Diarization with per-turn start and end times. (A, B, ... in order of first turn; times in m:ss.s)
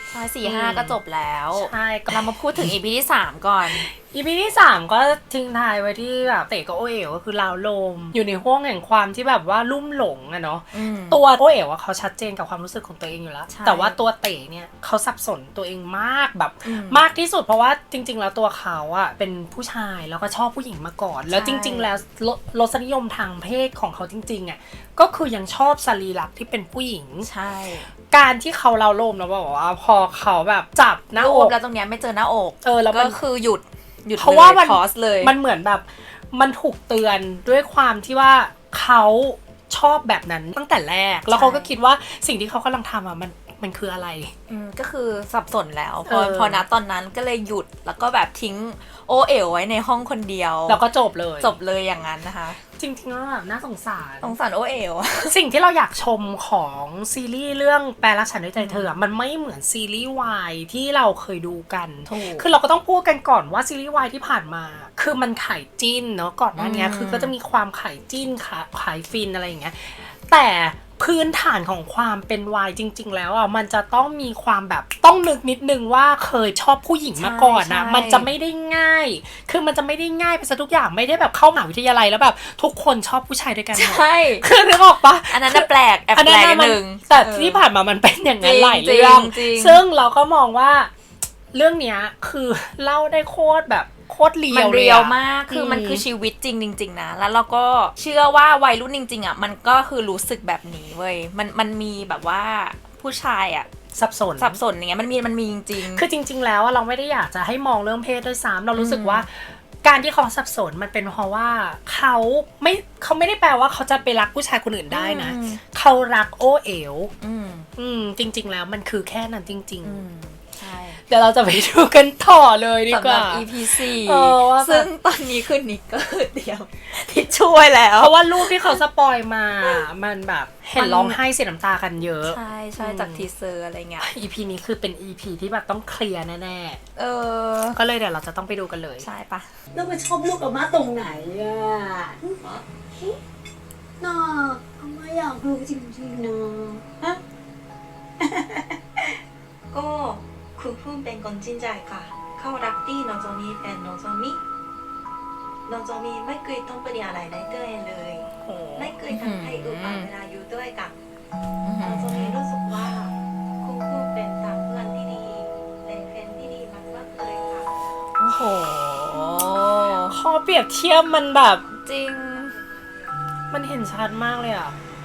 0:00.1-0:03.8 A
0:00.4-0:01.0 B
0:01.5-0:02.3 B
0:03.7-0:27.3 B
0:10.7-0:11.2 A
0:13.5-0:14.0 A
0:16.6-0:17.0 A
0:21.3-0:21.9 A
0:27.2-0:27.9 A
0:28.0-0:31.5 B
0:31.2-0:35.3 A
0:32.6-0:33.2 B
0:34.2-0:44.3 B
0:41.3-0:41.7 A
0:44.5-0:50.8 A
0:46.0-0:46.6 B
0:50.7-0:51.6 B
0:51.4-0:52.6 A
0:52.8-0:54.4 B
0:54.2-0:55.3 A
0:55.2-1:30.9 B
0:58.6-0:58.9 A
1:02.0-1:02.5 A
1:06.6-1:07.3 A
1:17.1-1:18.3 A
1:23.7-1:24.4 A
1:25.3-1:27.6 A
1:28.4-1:29.8 A
1:31.5-1:36.0 B
1:34.5-1:43.8 A
1:43.9-1:44.6 B
1:44.4-1:46.1 A
1:45.8-1:57.1 B
1:48.7-1:49.2 A
1:54.9-1:55.6 A
1:57.2-1:57.7 A
1:57.8-2:00.0 B
1:59.8-2:01.0 A
2:01.1-2:04.9 B
2:02.9-2:08.8 A
2:08.0-2:13.3 B
2:10.8-2:11.2 A
2:12.2-2:14.1 A
2:14.0-2:16.8 B
2:17.0-2:17.8 A
2:17.8-2:19.1 B
2:19.0-2:19.6 A
2:19.7-2:23.2 C
2:24.0-2:26.9 C
2:28.2-2:29.0 C
2:29.7-2:34.4 D
2:35.7-2:41.0 D
2:38.4-2:39.0 B
2:39.1-2:40.1 A
2:41.6-2:42.4 A
2:41.8-2:47.7 D
2:48.2-2:50.2 A
2:50.1-2:51.6 B
2:51.7-2:52.6 A
2:53.5-2:54.8 B